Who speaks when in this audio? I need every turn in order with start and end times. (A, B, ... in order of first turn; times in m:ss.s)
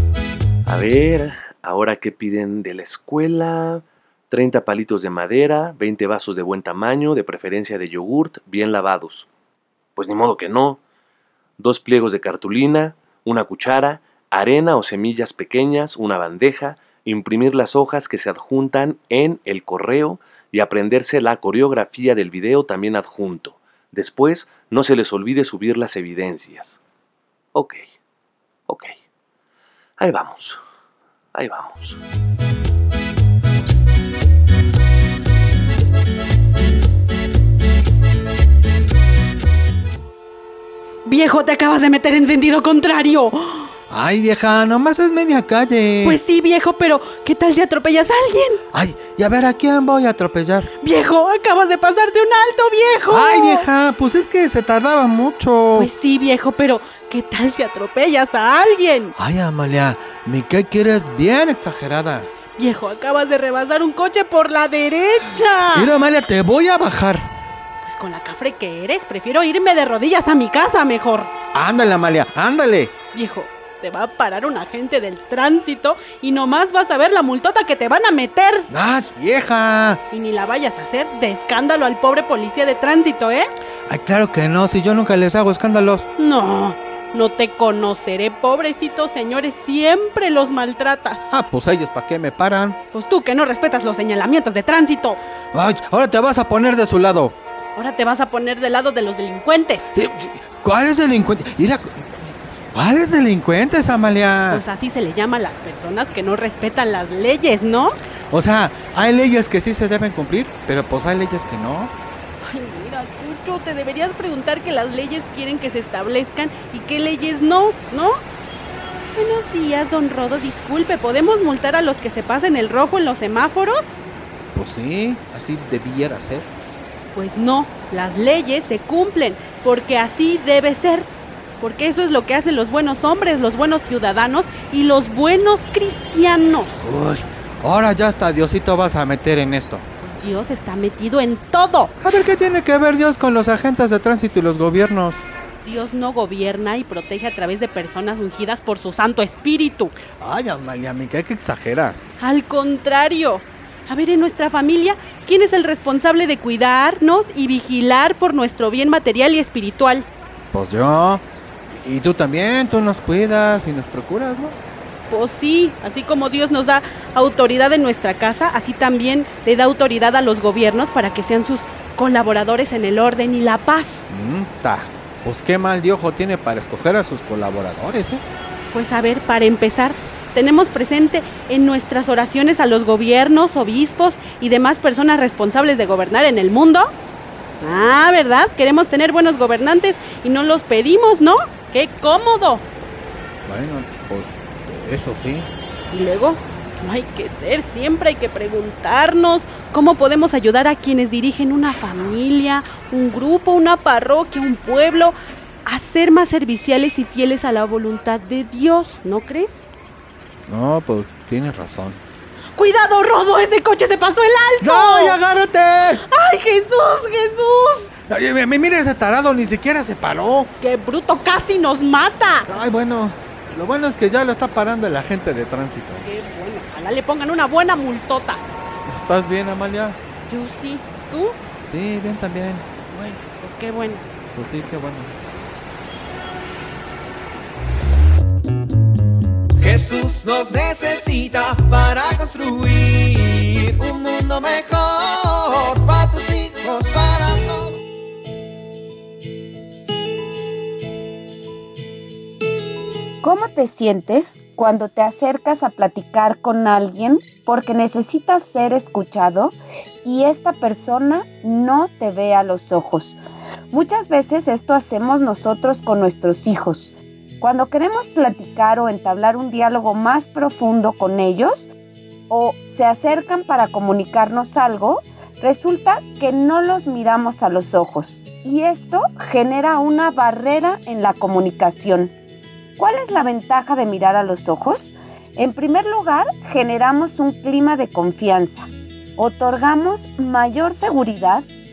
0:00.6-0:09.3 A
0:10.0-0:10.8 A
0:11.6-0:26.8 A
0:27.5-0:27.8 A
0:28.7-0:28.9 A
0:30.0-0:30.6 A
0:31.3-0:32.0 A
0:41.0-0:43.7 B
0:43.9-0:46.2 C
0:46.0-0:48.6 B
0:48.7-0:50.7 C
0:50.8-0:53.7 B
0:53.1-0:55.9 C
0:55.7-0:59.1 B
0:59.2-1:02.3 C
1:02.6-1:05.9 B
1:05.7-1:07.3 C
1:07.8-1:11.3 B
1:11.5-1:12.9 C
1:13.1-1:18.7 B
1:18.7-1:20.0 C
1:20.1-1:23.5 B
1:23.9-1:26.0 C
1:26.2-1:31.3 B
1:31.3-1:32.8 C
1:32.9-1:35.2 B
1:35.5-1:37.3 C
1:37.8-1:39.8 B
1:39.9-1:44.6 C
1:44.5-1:48.0 B
1:48.3-1:51.9 C
1:52.4-1:58.2 B
1:59.1-2:04.0 B
2:04.5-2:06.5 C
2:07.1-2:16.8 B
2:16.8-2:19.8 C
2:20.0-2:21.9 B
2:22.0-2:25.2 C
2:25.6-2:29.9 B
2:30.2-2:32.1 C
2:32.2-2:40.0 B
2:40.5-2:44.6 C
2:45.1-2:54.1 B
2:54.1-2:58.2 C
2:58.7-3:06.9 B
3:07.6-3:12.6 B
3:13.4-3:15.5 C
3:15.9-3:25.1 B
3:25.6-3:29.7 B
3:30.5-3:32.0 C
3:32.6-3:35.2 B
3:34.6-3:36.0 C
3:36.1-3:37.9 B
3:38.1-3:40.5 C
3:40.6-3:42.5 B
3:42.5-3:46.1 C
3:46.0-3:48.4 B
3:48.8-3:50.0 C
3:50.3-3:51.4 B
3:51.6-3:52.6 C
3:52.9-3:54.0 B
3:54.3-3:55.1 C
3:59.6-4:07.8 D
4:13.2-4:23.2 E
4:23.7-4:31.7 E
4:32.3-4:42.1 E
4:42.8-4:51.4 E